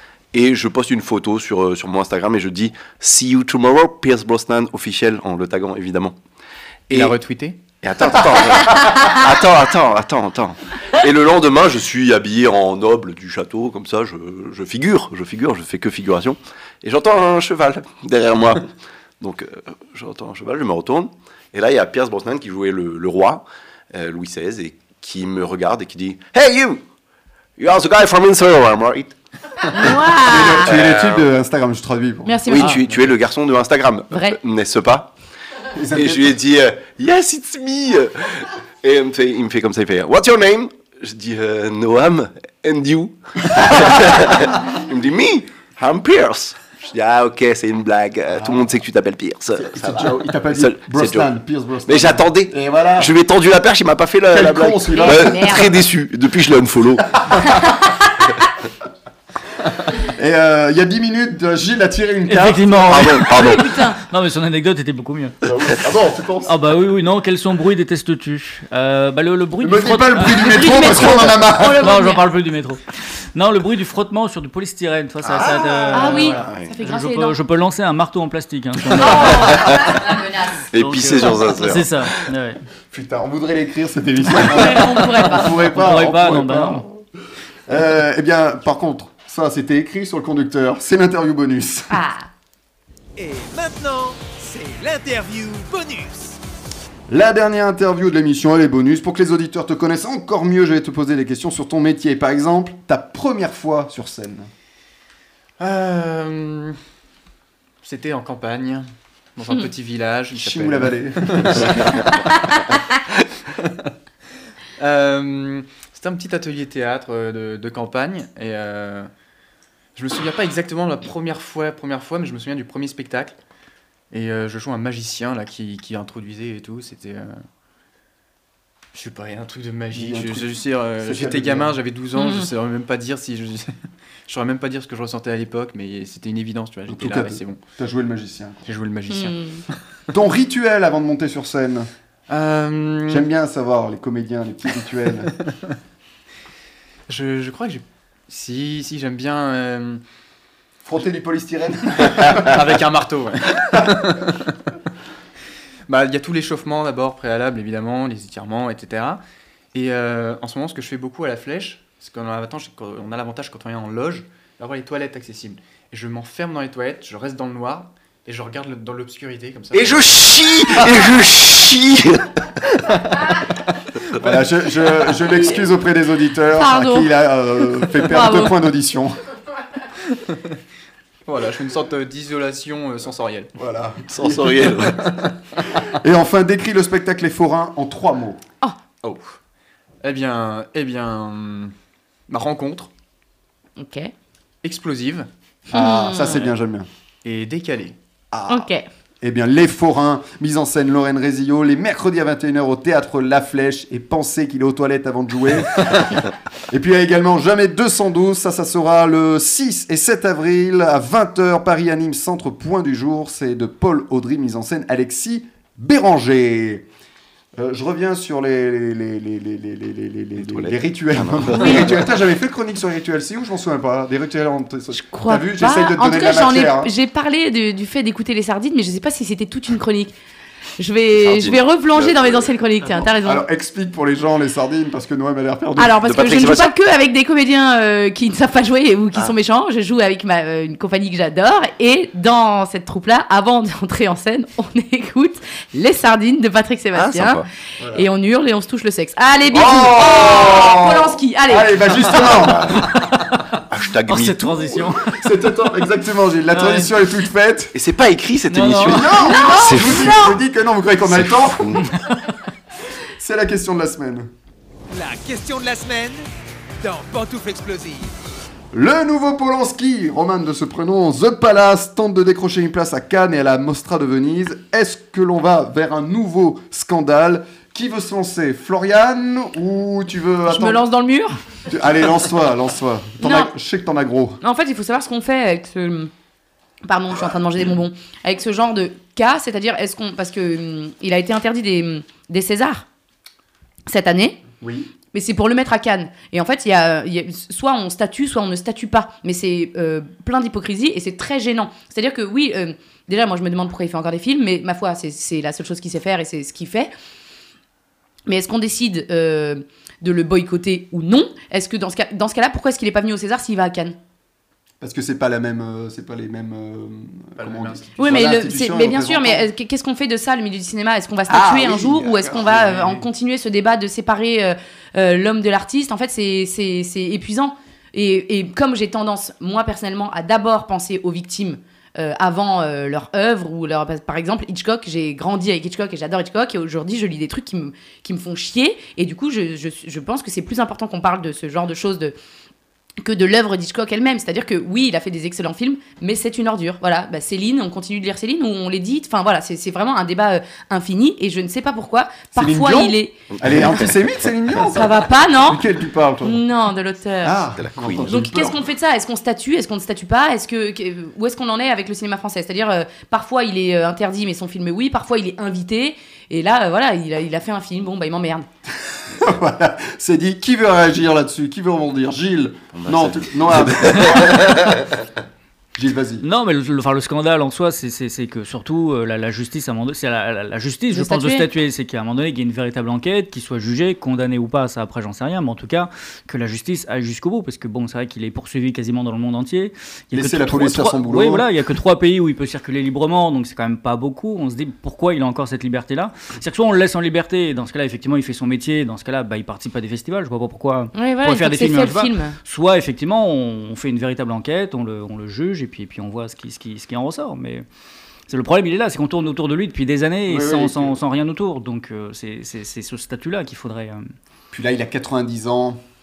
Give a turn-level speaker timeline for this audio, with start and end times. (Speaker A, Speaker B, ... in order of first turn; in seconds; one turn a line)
Speaker A: 0.3-6.2
Speaker B: 6.9-7.6
Speaker A: 7.8-18.7
Speaker A: 19.2-26.8
Speaker A: 27.6-31.3
Speaker C: 29.7-30.7
Speaker D: 30.1-32.7
Speaker C: 32.2-32.8
Speaker A: 32.5-35.1
Speaker C: 34.1-34.4
Speaker D: 35.7-36.4
Speaker A: 35.9-51.3
Speaker D: 48.3-48.7
Speaker D: 49.5-53.1
Speaker A: 51.9-57.3
Speaker D: 54.3-55.6
Speaker C: 54.9-55.8
Speaker D: 60.0-63.2
Speaker E: 62.3-65.4
Speaker A: 62.9-63.6
Speaker C: 63.2-64.0
Speaker D: 65.4-66.6
Speaker E: 66.5-72.8
Speaker D: 69.6-71.9
Speaker C: 70.3-72.2
Speaker E: 73.3-79.7
Speaker D: 75.4-76.3
Speaker C: 75.9-77.4
Speaker A: 76.4-76.8
Speaker C: 79.0-80.6
Speaker A: 79.0-80.1
Speaker A: 80.7-82.3
Speaker E: 80.8-82.6
Speaker D: 82.9-87.0
Speaker C: 84.3-85.6
Speaker E: 85.7-86.8
Speaker D: 87.7-92.0
Speaker C: 91.9-92.3
Speaker F: 93.2-96.4
Speaker D: 97.1-104.5
Speaker B: 105.6-106.8
Speaker B: 107.8-111.9
Speaker D: 110.3-112.0
Speaker B: 114.8-119.1
Speaker B: 120.0-123.4
Speaker B: 124.1-127.4
Speaker B: 128.9-133.7
Speaker D: 129.9-131.8
Speaker C: 132.2-132.5
Speaker B: 134.3-137.6
Speaker D: 136.9-138.6
Speaker B: 138.7-139.4
Speaker C: 139.1-139.6
Speaker D: 140.1-141.9
Speaker B: 142.3-143.3
Speaker D: 143.1-145.3
Speaker B: 147.1-150.0
Speaker D: 150.8-152.6
Speaker B: 152.0-154.3
Speaker B: 155.9-159.2
Speaker B: 159.7-170.1
Speaker A: 169.7-172.3
Speaker D: 174.2-179.2
Speaker C: 176.6-177.1
Speaker C: 178.0-178.6
Speaker B: 181.3-183.5
Speaker D: 183.6-188.4
Speaker A: 184.1-185.2
Speaker B: 189.0-189.3
Speaker B: 190.0-191.7
Speaker B: 192.3-192.9
Speaker C: 193.8-194.1
Speaker B: 194.6-195.3
Speaker C: 195.7-196.4
Speaker D: 195.7-196.9
Speaker B: 197.2-198.0
Speaker D: 198.3-198.7
Speaker C: 198.5-198.8
Speaker D: 199.2-216.9
Speaker D: 217.6-226.9
Speaker A: 220.4-222.1
Speaker C: 224.9-230.2
Speaker C: 230.8-233.4
Speaker A: 231.2-232.5
Speaker D: 232.8-236.0
Speaker C: 235.8-252.5
Speaker A: 236.0-236.7
Speaker A: 246.9-247.5
Speaker D: 247.8-248.1
Speaker D: 249.5-252.9
Speaker A: 252.2-253.0
Speaker E: 252.9-255.2
Speaker A: 253.7-254.7
Speaker D: 254.7-257.8
Speaker E: 256.5-256.9
Speaker A: 257.8-260.4
Speaker E: 258.5-259.5
Speaker D: 258.8-261.9
Speaker C: 259.3-260.3
Speaker A: 261.1-261.9
Speaker E: 261.8-262.3
Speaker D: 263.2-264.3
Speaker F: 264.9-266.3
Speaker F: 266.8-268.1
Speaker D: 268.7-280.9
Speaker C: 280.5-281.4
Speaker D: 281.7-284.4
Speaker C: 283.2-283.5
Speaker C: 284.4-286.1
Speaker C: 286.9-292.9
Speaker C: 293.9-294.4
Speaker D: 294.6-294.9
Speaker C: 295.1-306.9
Speaker C: 308.3-314.0
Speaker D: 314.8-319.5
Speaker B: 317.4-318.0
Speaker C: 318.0-342.1
Speaker D: 321.3-323.0
Speaker C: 343.0-353.2
Speaker D: 352.4-356.4
Speaker A: 353.3-354.0
Speaker C: 354.7-355.6
Speaker C: 356.2-357.4
Speaker D: 357.2-358.6
Speaker A: 357.6-358.1
Speaker C: 358.1-368.5
Speaker D: 369.1-374.8
Speaker A: 372.8-374.8
Speaker D: 375.8-376.2
Speaker E: 376.2-407.6
Speaker C: 380.9-381.5
Speaker D: 390.1-391.8
Speaker C: 400.9-402.4
Speaker E: 408.3-414.1
Speaker D: 410.3-411.0
Speaker D: 414.5-415.8